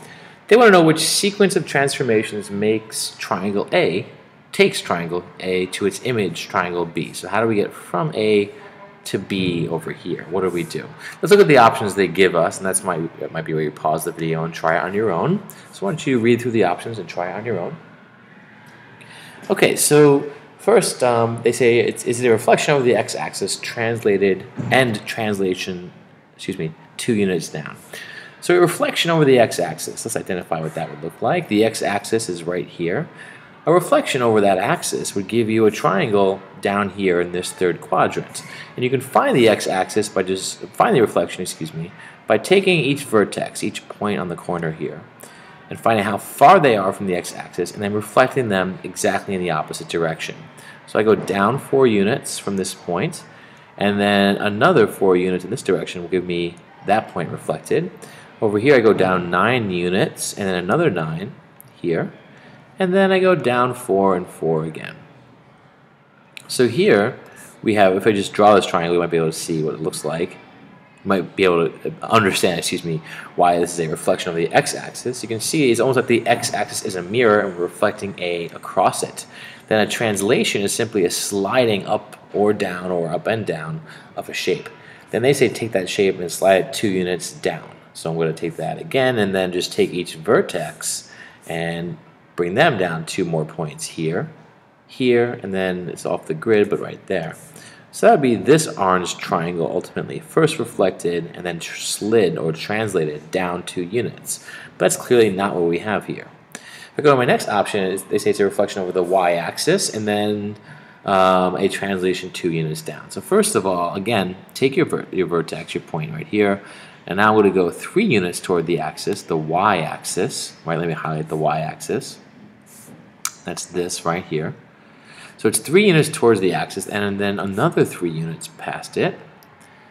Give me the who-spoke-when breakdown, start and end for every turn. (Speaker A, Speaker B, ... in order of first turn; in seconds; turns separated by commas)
Speaker A: 0.5-8.5, Speaker A: 9.0-17.8, Speaker A: 19.5-27.8, Speaker A: 28.4-33.1, Speaker A: 33.7-45.1, Speaker A: 45.7-53.3, Speaker A: 53.8-62.1, Speaker A: 62.8-65.0, Speaker A: 66.5-70.4, Speaker A: 71.0-94.3, Speaker A: 94.9-97.4, Speaker A: 97.9-106.3, Speaker A: 107.0-122.2, Speaker A: 123.5-124.6, Speaker A: 125.4-129.2